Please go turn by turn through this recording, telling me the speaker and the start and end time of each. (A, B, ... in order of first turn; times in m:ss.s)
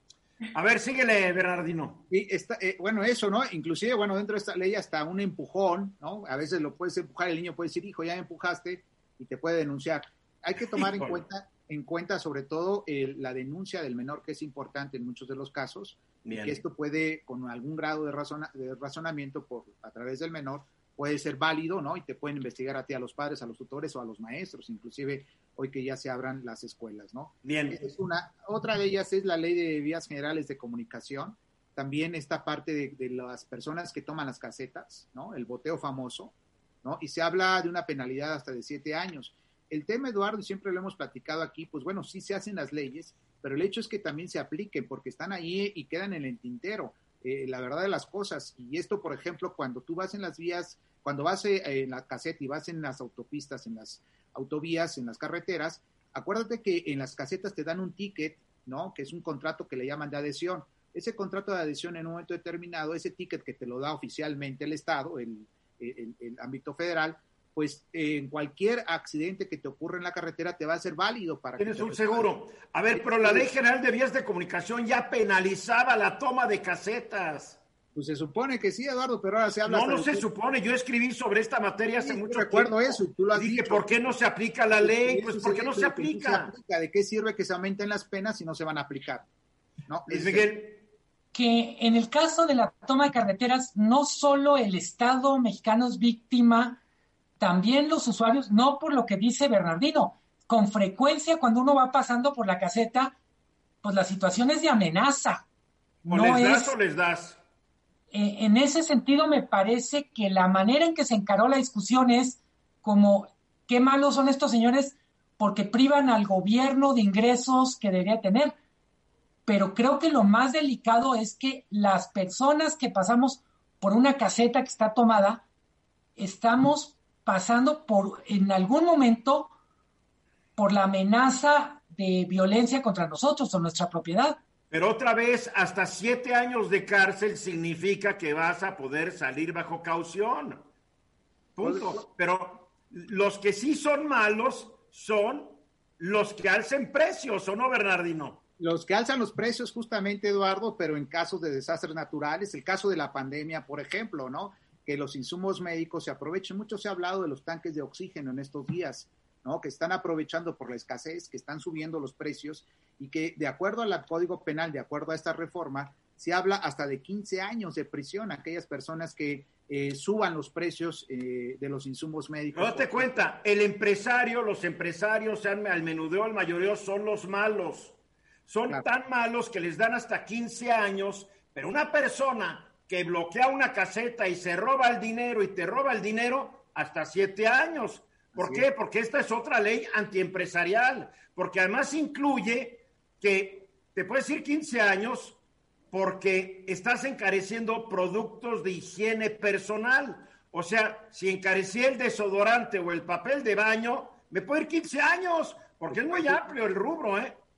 0:00.5-0:02.0 A
0:02.1-1:12.3 B
0:10.8-0:11.2 A
0:16.2-0:16.6 A
0:27.4-0:27.8 A
1:11.6-1:17.6 A
1:12.9-1:13.5 B
1:17.9-1:20.2 B
1:19.6-1:26.5 A
1:22.0-1:24.1 B
1:24.7-1:29.3 B
1:29.9-1:30.5 B
1:30.1-1:30.8 A
1:31.3-1:36.8 C
1:37.4-1:43.1 C
1:43.8-1:45.4 C
1:46.0-1:47.4 A
1:46.1-1:46.7 C
1:48.1-1:58.5 C
1:59.4-2:05.4 C
2:06.2-2:09.5 C
2:10.6-2:14.4 C
2:14.7-2:20.6 A
2:21.6-2:28.4 A
2:21.6-2:22.0 B
2:28.6-2:53.1 B
2:52.5-2:58.0 A
2:58.5-3:15.4 A
3:08.3-3:08.6 B
3:15.9-3:27.4 A
3:25.9-3:26.5 B